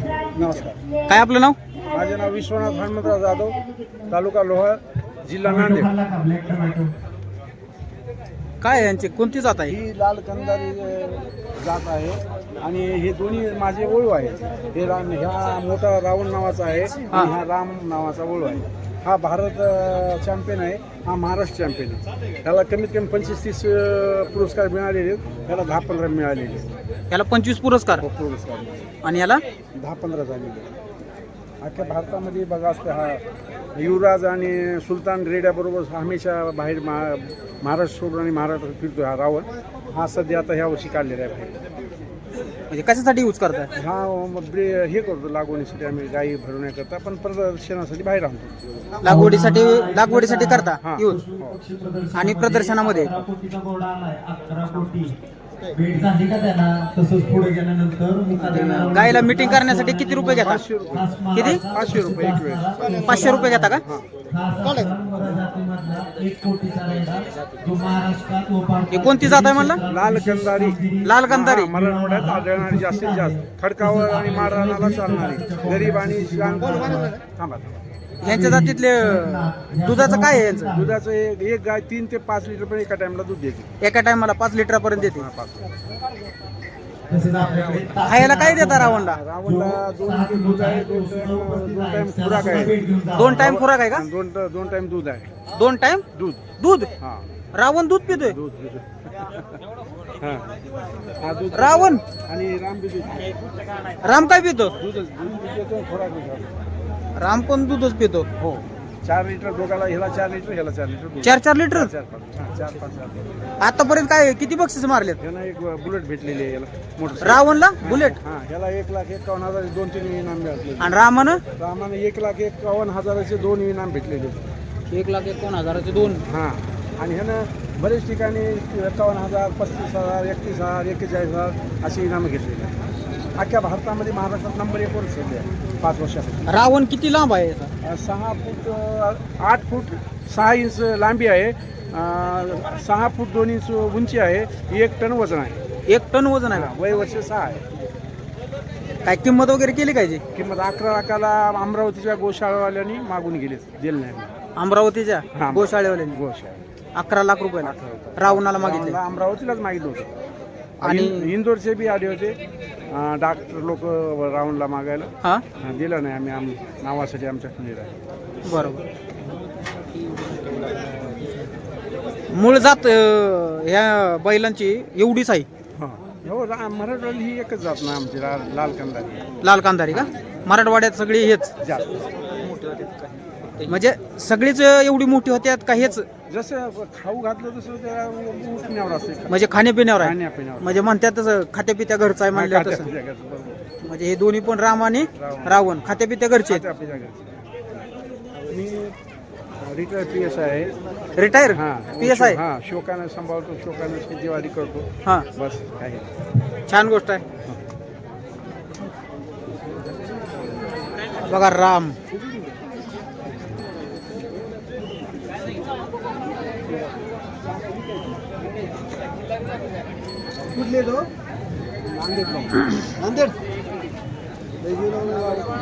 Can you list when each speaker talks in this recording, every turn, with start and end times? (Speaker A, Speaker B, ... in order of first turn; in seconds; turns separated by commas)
Speaker A: 0.3-0.8, Speaker B: 1.1-1.6, Speaker A: 1.9-5.9, Speaker C: 5.4-6.9, Speaker B: 8.6-9.8, Speaker A: 9.7-26.7, Speaker B: 27.1-28.0, Speaker A: 28.0-28.9, Speaker B: 29.0-29.4, Speaker A: 29.8-30.7, Speaker A: 31.6-33.2, Speaker A: 33.8-41.5, Speaker B: 42.7-43.7, Speaker A: 43.8-48.6, Speaker B: 49.0-51.2, Speaker C: 49.0-55.2, Speaker A: 50.8-51.6, Speaker B: 52.1-53.2, Speaker C: 55.7-77.2, Speaker A: 58.4-59.2, Speaker B: 58.4-60.6, Speaker A: 60.3-64.1, Speaker B: 61.3-61.6, Speaker B: 63.0-63.8, Speaker B: 68.9-69.8, Speaker A: 69.8-77.7, Speaker B: 71.0-71.8, Speaker B: 78.2-80.7, Speaker C: 78.2-81.0, Speaker A: 80.4-83.7, Speaker B: 83.8-85.2, Speaker A: 84.9-85.8, Speaker C: 87.1-93.5, Speaker A: 87.4-87.9, Speaker B: 88.0-89.2, Speaker A: 88.5-92.8, Speaker B: 93.2-94.0, Speaker A: 93.3-95.3, Speaker B: 95.5-96.0, Speaker A: 96.1-96.4, Speaker B: 96.6-96.9, Speaker A: 97.0-97.3, Speaker B: 97.5-98.3, Speaker A: 98.1-99.6, Speaker A: 100.2-100.5, Speaker A: 101.2-103.4, Speaker B: 101.5-102.0, Speaker B: 104.0-104.7, Speaker A: 104.8-106.5, Speaker B: 107.2-108.3, Speaker A: 108.4-113.3, Speaker B: 111.2-111.9, Speaker B: 113.6-115.2, Speaker A: 115.2-121.0, Speaker B: 117.2-118.2, Speaker B: 120.8-121.4, Speaker A: 121.5-124.5, Speaker B: 124.9-126.2, Speaker A: 126.0-132.8, Speaker A: 133.4-136.6, Speaker B: 136.5-137.7, Speaker A: 137.8-145.6, Speaker B: 145.9-146.7, Speaker A: 146.5-147.6, Speaker B: 149.0-150.2, Speaker A: 150.3-154.3, Speaker B: 154.6-156.2, Speaker A: 155.3-156.6, Speaker B: 157.0-159.0, Speaker A: 157.6-160.1, Speaker B: 160.8-161.3, Speaker A: 160.8-162.4, Speaker A: 162.9-168.0, Speaker B: 168.4-168.8, Speaker B: 172.3-175.5, Speaker A: 175.8-179.3, Speaker B: 179.4-181.5, Speaker A: 181.6-182.1, Speaker B: 182.5-182.9, Speaker B: 183.7-186.1, Speaker A: 186.3-189.4, Speaker B: 189.3-192.9, Speaker A: 190.0-190.9, Speaker A: 192.3-193.6, Speaker B: 193.8-196.6, Speaker A: 195.1-195.8, Speaker A: 196.5-197.4, Speaker A: 198.5-199.0, Speaker A: 199.6-200.7, Speaker B: 201.2-202.4, Speaker A: 201.5-206.1, Speaker B: 206.7-207.2, Speaker B: 211.2-212.0, Speaker A: 217.4-218.5, Speaker A: 220.7-221.0, Speaker A: 221.9-222.7, Speaker A: 224.8-225.4